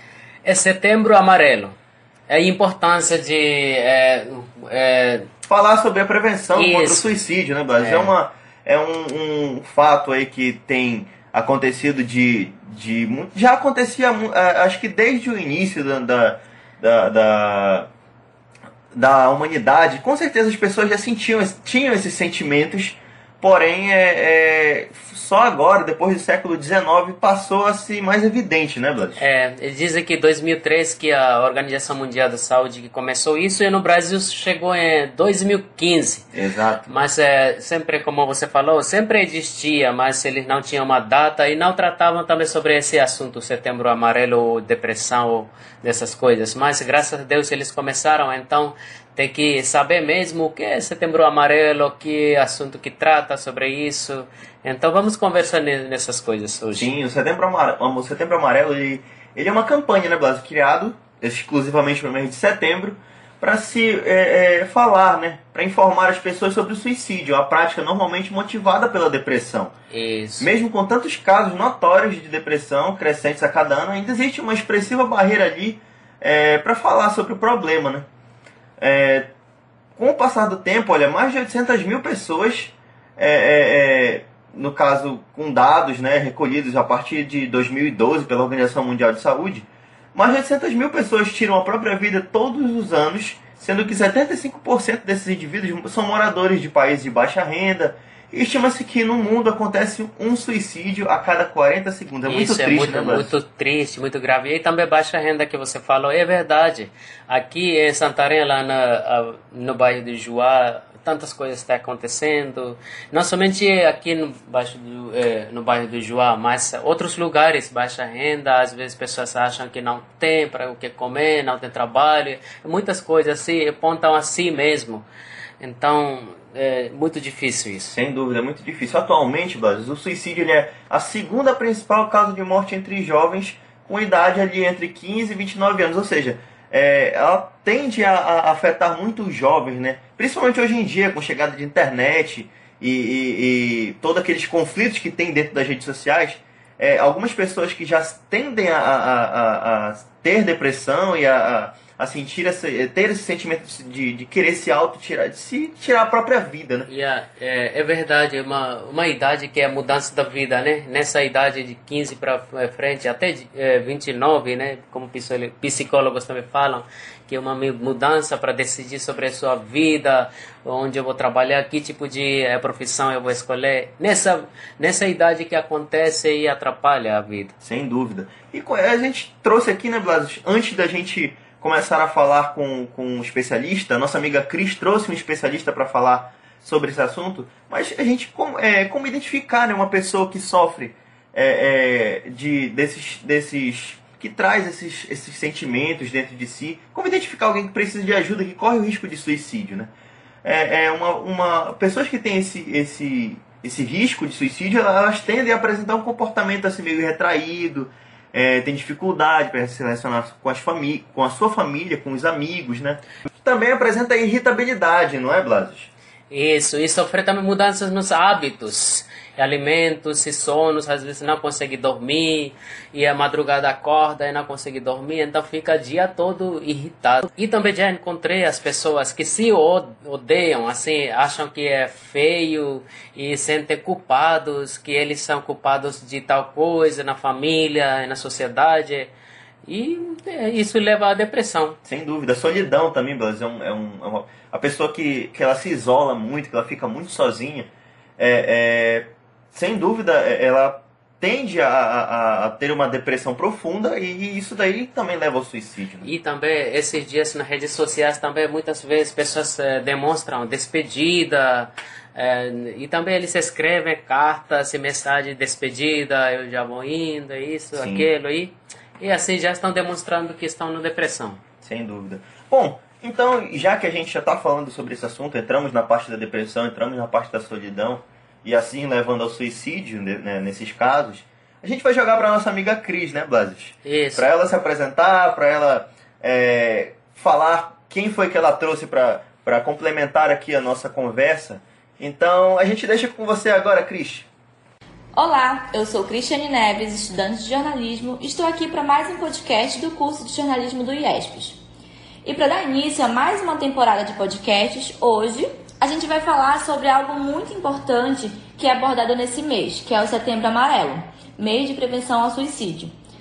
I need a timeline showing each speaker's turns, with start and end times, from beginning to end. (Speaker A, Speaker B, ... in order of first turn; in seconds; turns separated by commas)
Speaker A: 0.5-1.8, Speaker A: 2.3-5.3, Speaker B: 5.5-17.9, Speaker A: 6.6-7.1, Speaker A: 7.8-8.1, Speaker B: 18.9-29.2, Speaker A: 29.2-36.2, Speaker B: 36.4-36.8, Speaker A: 36.9-56.9, Speaker B: 56.8-69.7, Speaker A: 69.9-70.5, Speaker B: 70.4-78.1, Speaker B: 78.8-79.3, Speaker B: 80.0-103.3, Speaker A: 102.3-125.1, Speaker A: 125.6-127.9, Speaker B: 127.9-156.9, Speaker A: 156.9-177.6, Speaker B: 177.6-199.9, Speaker B: 200.4-215.9, Speaker A: 216.3-239.1, Speaker A: 239.7-241.8, Speaker B: 241.9-256.1, Speaker A: 256.0-271.4, Speaker B: 267.8-268.1, Speaker B: 271.6-294.3, Speaker A: 283.9-284.3, Speaker C: 295.1-301.6, Speaker C: 302.2-312.9